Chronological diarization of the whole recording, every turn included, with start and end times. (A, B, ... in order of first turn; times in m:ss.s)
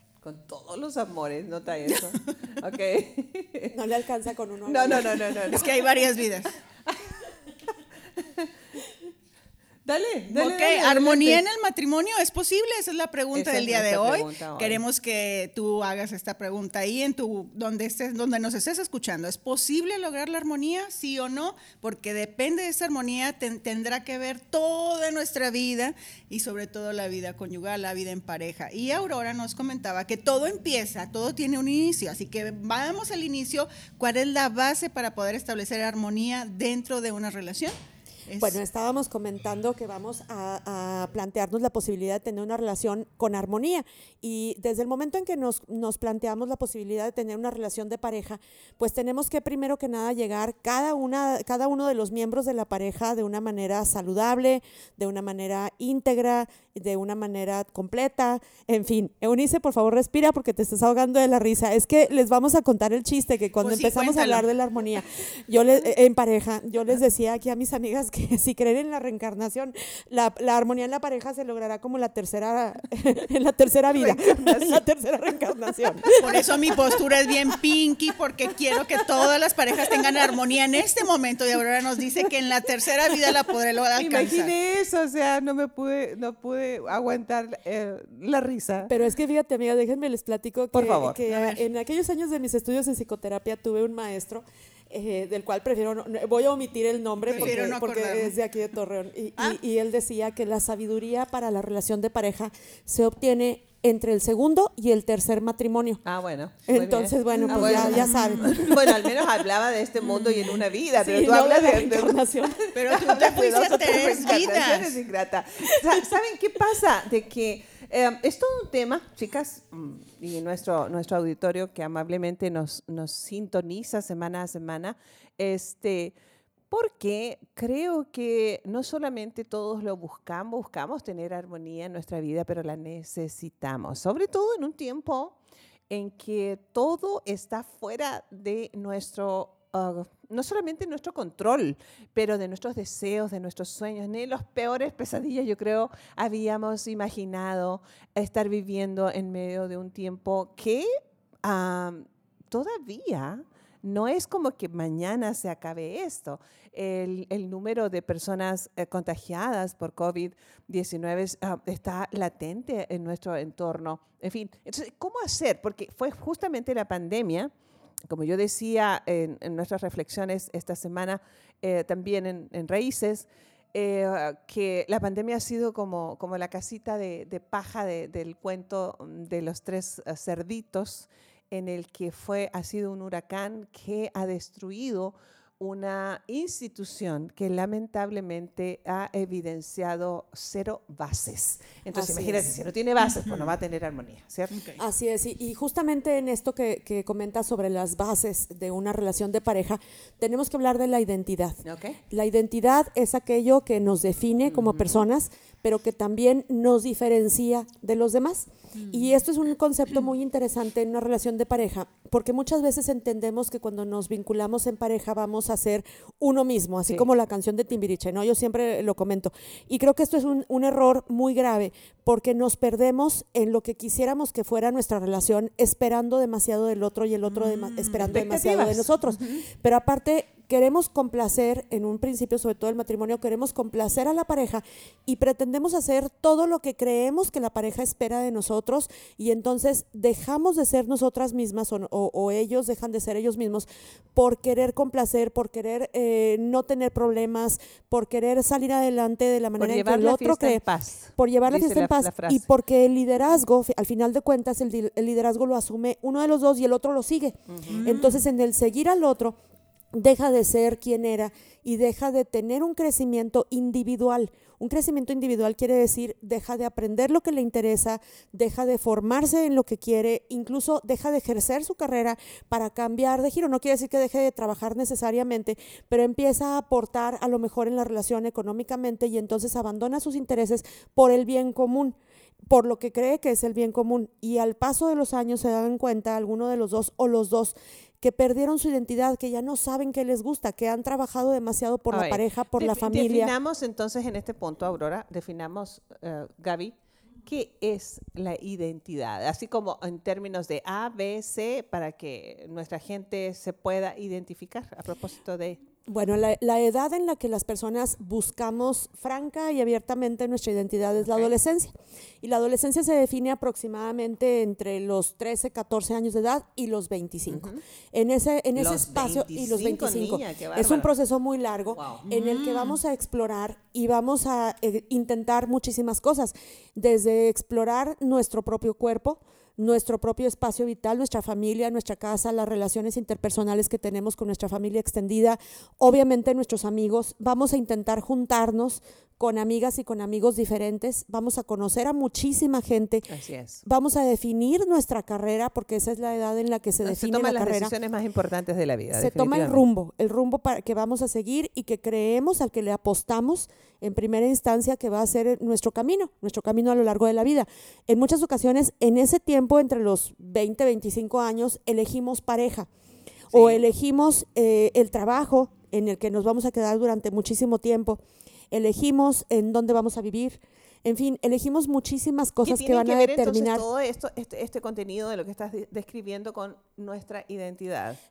0:00.2-0:03.7 A
0:03.7-0:05.4 B
0:04.6-0:05.8 A
0:05.5-0:06.5 C
0:06.8-0:07.2 A
0:08.2-0:08.5 A
0:09.8-0:11.4 A
0:10.3-0:37.8 C
0:13.3-0:14.8 A
0:38.3-0:38.6 C
0:38.4-1:17.0 B
1:03.6-1:04.4 C
1:13.9-1:14.8 A
1:16.2-1:24.5 C
1:24.0-1:28.9 A
1:28.9-1:46.0 B
1:30.7-1:31.2 A
1:31.3-1:31.6 C
1:37.3-1:38.4 C
1:46.0-2:06.2 A
1:46.7-1:49.2 B
1:47.3-1:48.5 C
1:50.9-1:52.6 B
1:52.7-1:55.0 C
2:06.7-2:15.4 A
2:15.9-2:30.9 A
2:31.4-2:47.5 A
2:48.1-3:14.6 A
3:11.9-3:12.5 B
3:13.1-3:13.5 C
3:14.5-3:14.8 C
3:14.8-4:10.6 B
3:21.6-3:22.0 A
3:24.4-3:25.0 A
3:28.8-3:29.0 C
3:47.4-3:48.1 C
3:48.0-3:49.4 A
4:09.6-4:12.5 A
4:11.2-4:19.4 B
4:17.5-4:17.8 A
4:17.7-4:18.2 C
4:19.9-4:42.0 B
4:42.5-4:53.3 B
4:51.9-5:05.6 A
5:05.9-5:43.1 B
5:17.3-5:17.6 A
5:18.5-5:20.9 A
5:21.7-5:22.0 A
5:22.0-5:22.8 C
5:43.1-5:43.6 A
5:43.6-5:47.7 B
5:46.8-5:49.6 A
5:48.9-6:02.7 B
6:03.3-6:03.6 A
6:03.3-6:08.0 B
6:08.5-6:13.6 B
6:12.4-6:18.0 A